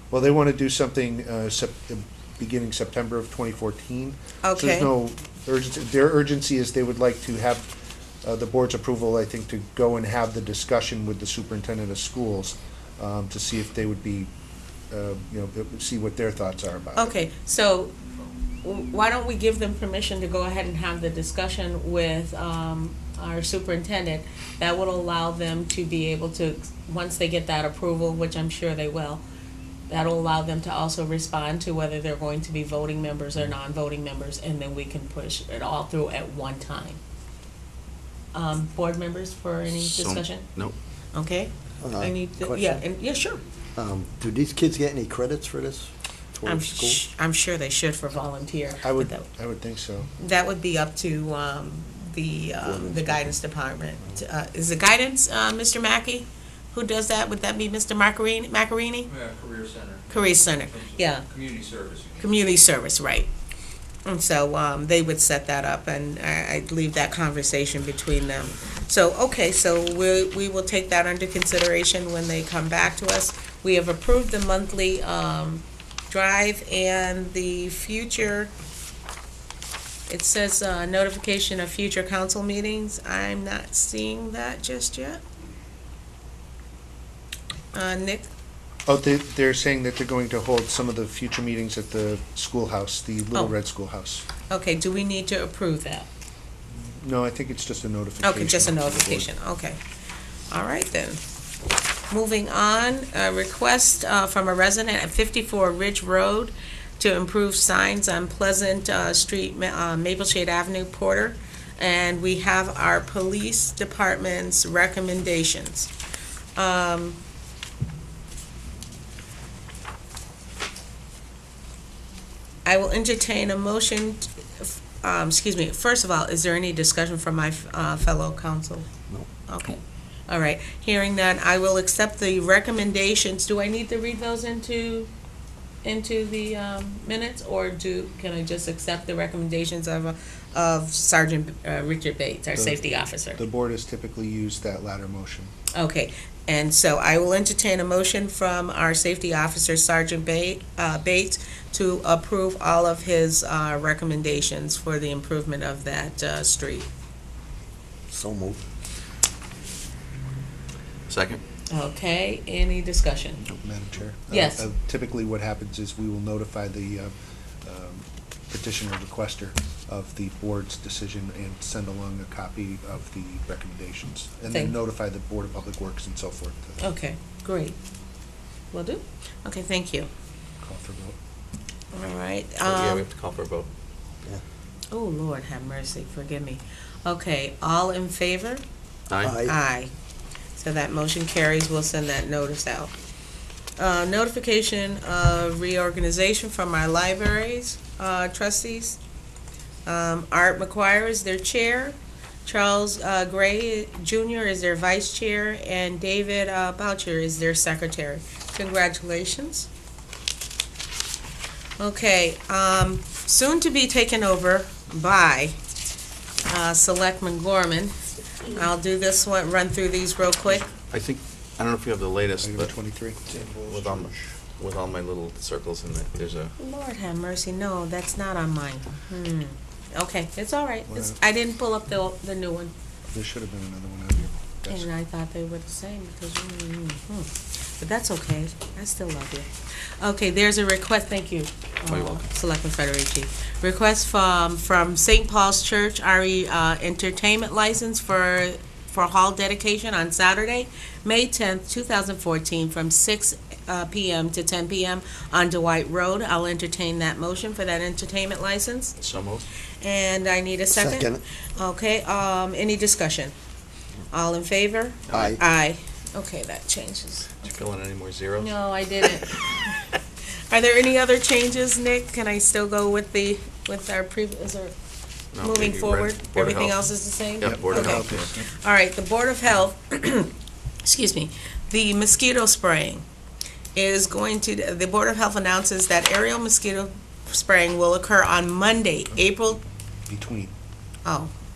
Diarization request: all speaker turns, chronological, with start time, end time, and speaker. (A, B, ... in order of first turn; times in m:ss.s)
0:00.1-0:07.7 A
0:04.4-0:04.9 B
0:08.2-0:14.3 A
0:14.9-0:17.1 A
0:17.0-0:17.9 B
0:18.6-0:29.2 B
0:29.9-0:37.0 B
0:38.3-0:40.5 B
0:39.7-0:40.8 C
0:41.1-0:43.4 B
0:41.8-0:42.8 D
0:43.8-0:47.0 D
0:46.5-0:49.3 B
0:48.8-0:50.1 A
0:50.2-0:59.1 B
0:52.6-0:53.4 D
0:59.1-1:02.3 E
1:00.1-1:01.3 B
1:02.2-1:03.3 B
1:04.0-1:18.5 B
1:20.1-1:25.2 B
1:27.7-1:28.3 B
1:28.9-1:34.3 A
1:34.5-1:36.1 B
1:36.8-1:39.3 A
1:38.2-1:39.8 B
1:40.5-1:41.2 B
1:42.1-1:55.9 B
1:56.6-1:57.2 B
2:02.7-2:08.9 B
2:09.5-2:15.1 B
2:15.8-2:23.4 B
2:22.6-2:22.8 A
2:23.4-2:25.5 A
2:25.7-2:36.9 B
2:38.1-2:38.6 D
2:41.1-2:41.4 C
2:41.7-2:43.4 B
2:43.5-2:47.1 A
2:44.3-2:44.7 B
2:47.6-2:56.8 A
2:54.5-2:54.8 B
2:56.8-2:57.8 B
2:58.7-3:00.1 B
3:00.6-3:01.2 A
3:01.9-3:03.1 B
3:02.6-3:03.7 C
3:04.9-3:08.6 B
3:09.1-3:09.4 C
3:09.2-3:09.6 D
3:09.4-3:09.9 B
3:10.6-3:12.9 B
3:13.8-3:19.0 B
3:19.9-3:29.7 B
3:31.8-3:35.6 B
3:36.4-3:37.9 B
3:38.5-3:40.7 B
3:40.7-3:42.7 C
3:42.4-3:43.3 A
3:43.6-3:46.5 C
3:46.6-3:52.7 B
3:50.9-3:51.2 A
3:53.1-3:54.9 A
3:54.7-3:59.5 B
4:00.0-4:19.0 B
4:01.8-4:02.3 C
4:19.0-4:19.4 C
4:19.8-4:23.3 B
4:20.7-4:21.2 D
4:24.1-4:27.4 B
4:25.1-4:25.4 C
4:25.1-4:25.4 D
4:27.4-4:28.5 C
4:28.4-4:29.9 B
4:30.5-4:34.7 B
4:35.3-4:38.3 C
4:35.4-4:40.3 B
4:37.4-4:38.5 A
4:40.8-4:43.0 B
4:43.8-4:49.6 B
4:50.1-4:50.5 A
4:51.0-4:51.3 B